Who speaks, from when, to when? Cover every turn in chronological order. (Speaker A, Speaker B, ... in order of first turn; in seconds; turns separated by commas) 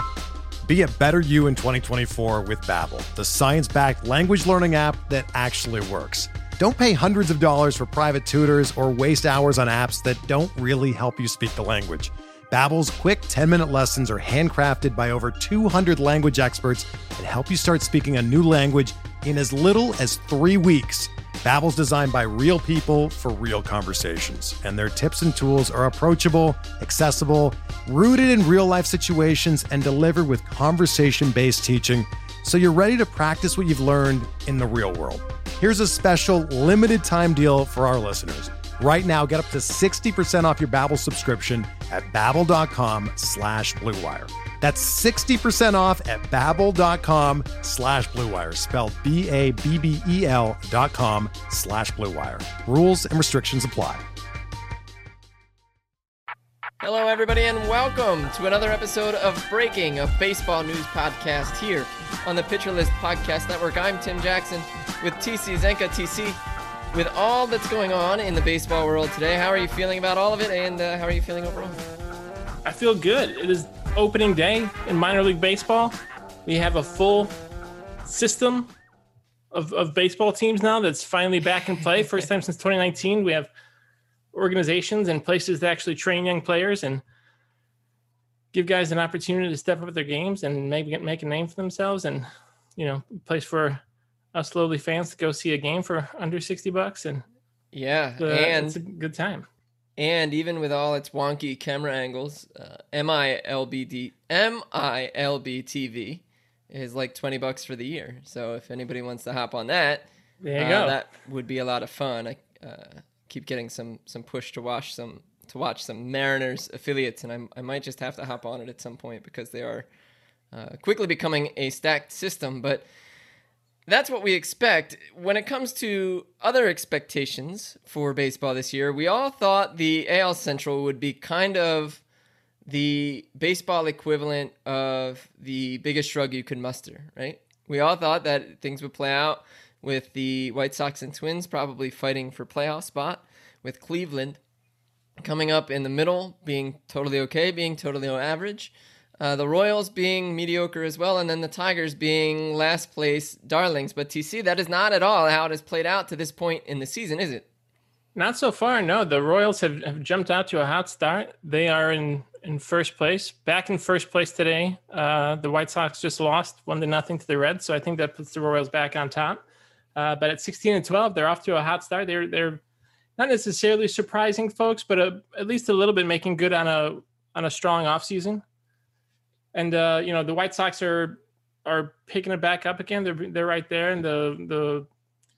Speaker A: 0.6-54.0, Speaker B: 56.8-66.4, Speaker B: 66.9-71.8, Speaker C: 72.7-77.3, Speaker C: 78.0-78.7, Speaker C: 79.5-83.5, Speaker C: 84.3-87.0, Speaker C: 88.5-93.8, Speaker C: 94.3-97.2, Speaker B: 97.7-98.8, Speaker C: 98.2-99.5, Speaker B: 100.0-119.9, Speaker C: 110.4-111.0, Speaker B: 120.5-122.8, Speaker B: 123.9-132.0, Speaker B: 132.7-144.4, Speaker B: 145.2-157.4, Speaker C: 158.2-169.4, Speaker C: 169.9-172.6, Speaker C: 173.2-178.4, Speaker C: 179.5-184.9